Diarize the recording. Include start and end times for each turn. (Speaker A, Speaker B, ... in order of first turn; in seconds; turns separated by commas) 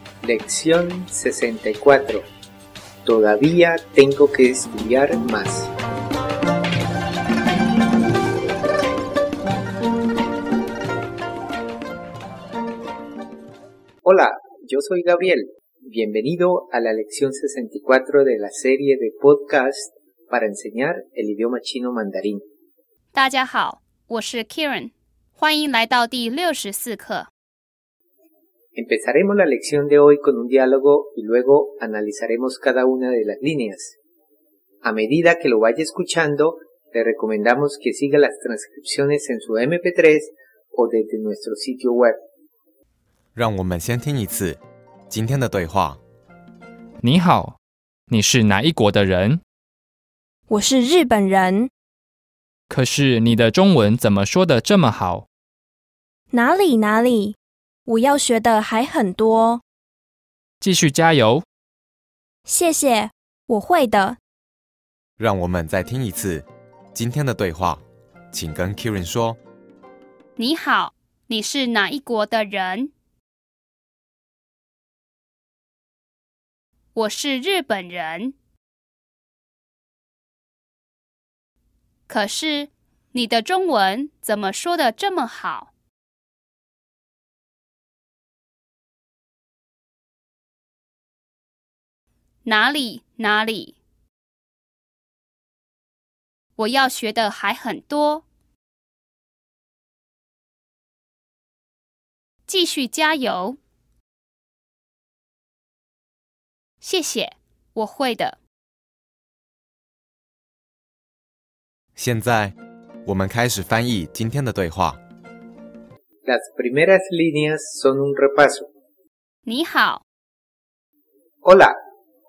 Speaker A: 0.2-2.2, Speaker A: 3.0-5.7, Speaker A: 14.0-22.4, Speaker B: 23.1-27.3, Speaker A: 28.8-34.0, Speaker A: 34.8-42.2, Speaker C: 43.4-46.0, Speaker D: 47.0-47.6, Speaker D: 48.1-49.4, Speaker E: 50.5-51.7, Speaker D: 52.7-55.3, Speaker E: 56.3-59.6, Speaker D: 60.6-61.4, Speaker E: 62.5-64.2, Speaker C: 65.2-69.4, Speaker B: 70.4-72.9, Speaker B: 77.0-78.3, Speaker B: 82.1-85.7, Speaker B: 92.5-93.8, Speaker B: 96.6-98.2, Speaker B: 102.5-103.6, Speaker B: 106.8-108.4, Speaker C: 112.0-115.0, Speaker A: 116.3-118.7, Speaker B: 119.5-120.0, Speaker A: 121.4-121.8